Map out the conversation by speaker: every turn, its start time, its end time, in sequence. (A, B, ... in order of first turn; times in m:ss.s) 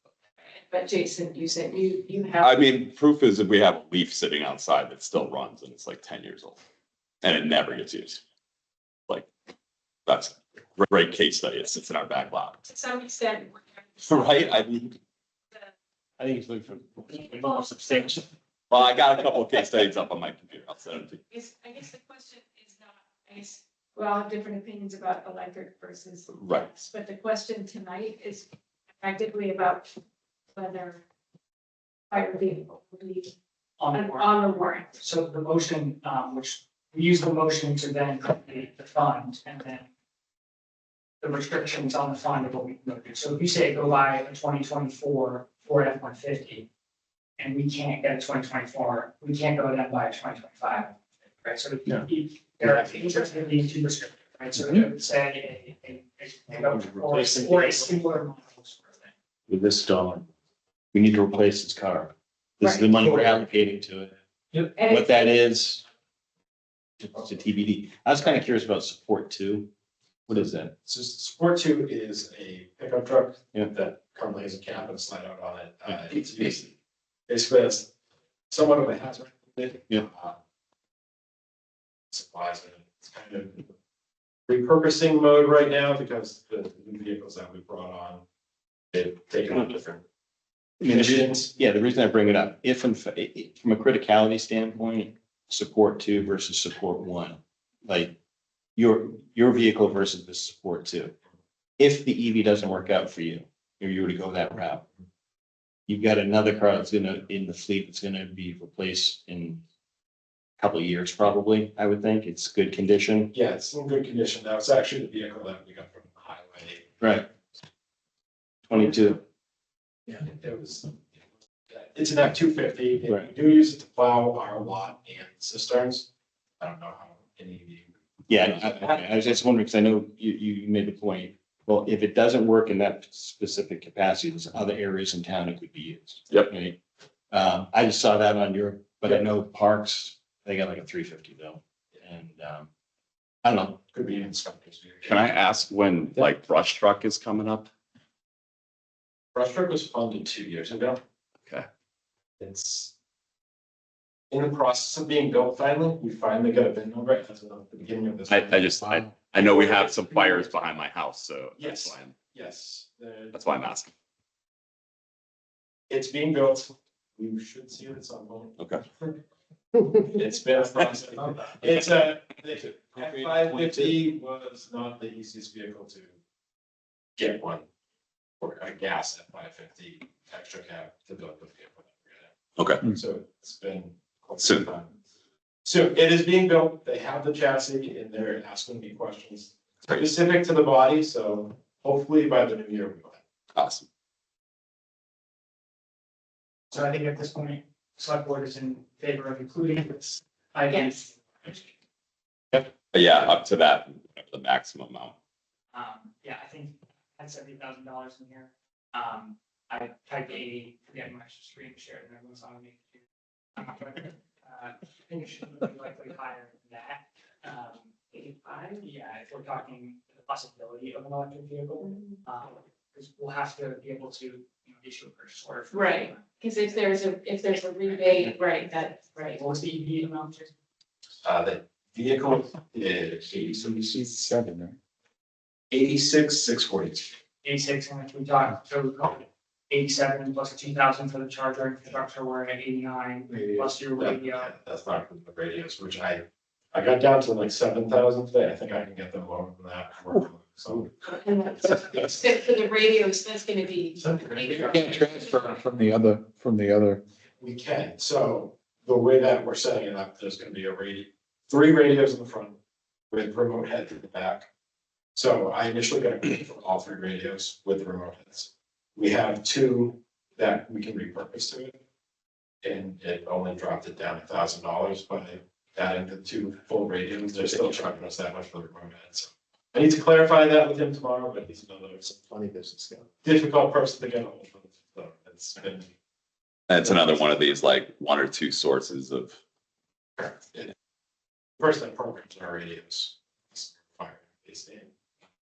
0:00.4-0:02.6 A
0:02.4-0:06.6 B
0:07.2-0:08.2 B
0:10.1-0:12.6 B
0:12.6-0:14.6 A
0:14.0-0:14.9 B
0:16.2-0:18.2 C
0:17.1-0:18.1 A
0:18.7-0:21.2 B
0:21.3-0:28.5 A
0:26.3-0:26.8 B
0:29.0-0:29.9 A
0:30.5-0:31.0 A
0:32.1-0:33.3 A
0:33.8-0:34.3 D
0:33.9-0:35.0 A
0:34.9-0:39.8 D
0:41.2-0:46.7 D
0:47.4-0:59.1 D
0:56.5-0:58.0 C
0:59.5-1:00.3 C
1:00.9-1:04.1 C
1:02.6-1:02.9 A
1:04.7-1:05.2 A
1:04.8-1:05.8 C
1:07.0-1:09.7 C
1:10.3-1:10.7 C
1:10.8-1:16.7 E
1:17.3-1:17.9 E
1:18.5-1:20.4 E
1:22.1-1:23.7 E
1:24.5-1:28.2 E
1:28.9-1:30.0 E
1:30.8-1:38.2 C
1:30.8-1:31.5 E
1:38.8-1:41.1 C
1:41.8-1:44.9 C
1:45.9-1:49.6 C
1:50.6-1:53.3 C
1:53.3-1:57.0 E
1:57.0-1:57.3 C
1:58.7-1:59.2 C
2:00.1-2:01.2 E
2:01.7-2:06.1 E
2:06.6-2:09.0 E
2:08.3-2:16.8 C
2:17.3-2:22.7 C
2:23.4-2:23.8 C
2:23.9-2:25.2 E
2:25.0-2:27.7 B
2:29.3-2:31.0 E
2:32.4-2:32.9 E
2:34.3-2:38.7 E
2:38.3-2:42.1 B
2:38.9-2:39.1 F
2:39.4-2:40.5 E
2:41.6-2:43.4 E
2:43.3-2:43.9 B
2:45.9-2:49.2 E
2:48.6-2:48.8 B
2:50.0-2:56.1 E
2:52.8-2:54.0 C
2:57.2-2:57.6 E
2:58.4-3:04.9 E
3:02.6-3:02.8 B
3:05.6-3:13.2 E
3:13.5-3:13.8 B
3:16.7-3:21.7 D
3:22.9-3:25.1 B
3:25.7-3:33.0 D
3:33.6-3:46.8 D
3:41.8-3:42.1 A
3:45.7-3:49.4 A
3:47.9-3:48.3 D
3:49.0-3:50.5 D
3:51.2-3:53.9 E
3:53.8-3:54.8 F
3:55.7-3:57.1 E
3:57.4-4:04.5 D
4:04.0-4:12.2 E
4:11.1-4:15.5 A
4:14.0-4:15.3 E
4:14.4-4:17.0 F
4:17.4-4:22.6 E
4:23.1-4:24.5 E
4:25.1-4:31.8 E
4:32.6-4:45.9 E
4:46.7-4:49.4 B
4:50.2-4:50.7 E
4:51.6-4:54.9 E